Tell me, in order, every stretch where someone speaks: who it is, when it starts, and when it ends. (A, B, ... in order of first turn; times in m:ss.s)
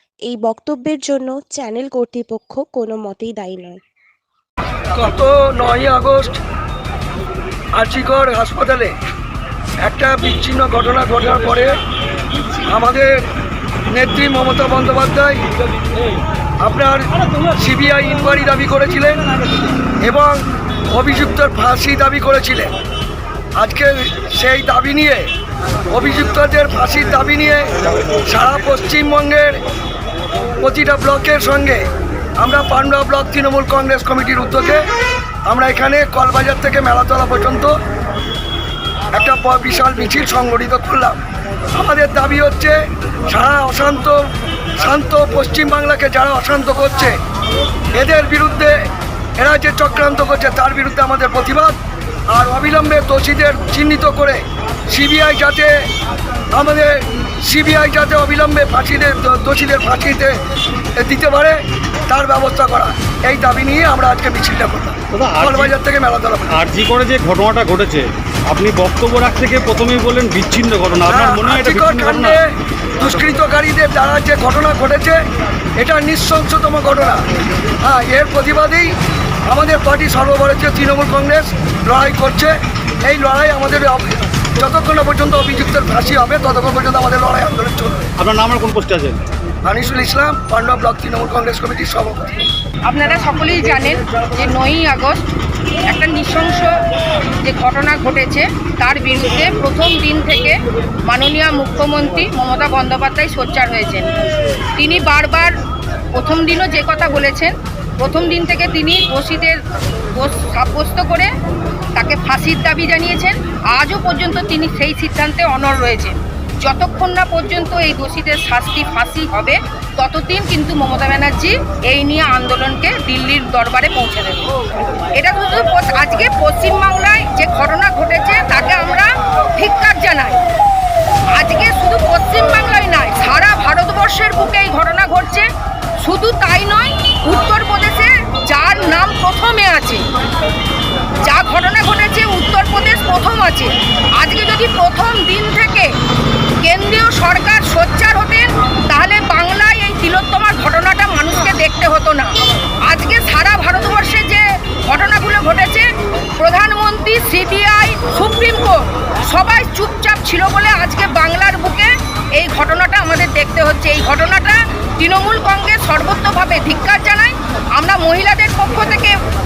0:00.2-0:03.8 A
0:04.9-0:06.4 B
0:07.8-0:08.9 B
0:09.8-0:11.8 B
0:12.7-0:13.1 B
0:13.9-0:15.4 B
0:16.6-0:19.2 B
0:20.0-0:20.4 B
0:20.9-0:22.7 B
0:23.6-0:25.3 B
0:25.9-0:27.7 B
0:28.3-0:29.6 B
0:30.6-0:31.8 B
0:32.4-0:34.8 B
0:35.5-0:37.7 B
0:39.1-0:41.2 B
0:41.7-0:42.8 B
0:43.3-0:44.2 B
0:44.8-0:47.2 B
0:47.9-0:48.7 B
0:49.4-0:51.8 B
0:52.3-0:55.7 B
0:56.5-1:00.4 B
1:01.0-1:06.5 B
1:05.1-1:05.7 C
1:06.5-1:12.4 C
1:11.1-1:12.4 B
1:13.0-1:15.2 B
1:15.8-1:17.2 B
1:17.8-1:18.9 B
1:19.4-1:28.1 B
1:28.2-1:29.2 C
1:29.6-1:32.3 B
1:32.8-1:35.2 D
1:35.8-1:36.7 D
1:37.4-1:44.1 D
1:44.8-1:45.6 D
1:46.1-1:49.6 D
1:50.1-1:51.3 D
1:52.0-2:04.5 D
2:05.1-2:10.4 D
2:11.3-2:15.5 D
2:16.0-2:20.0 D
2:21.2-2:26.0 D
2:26.6-2:49.2 D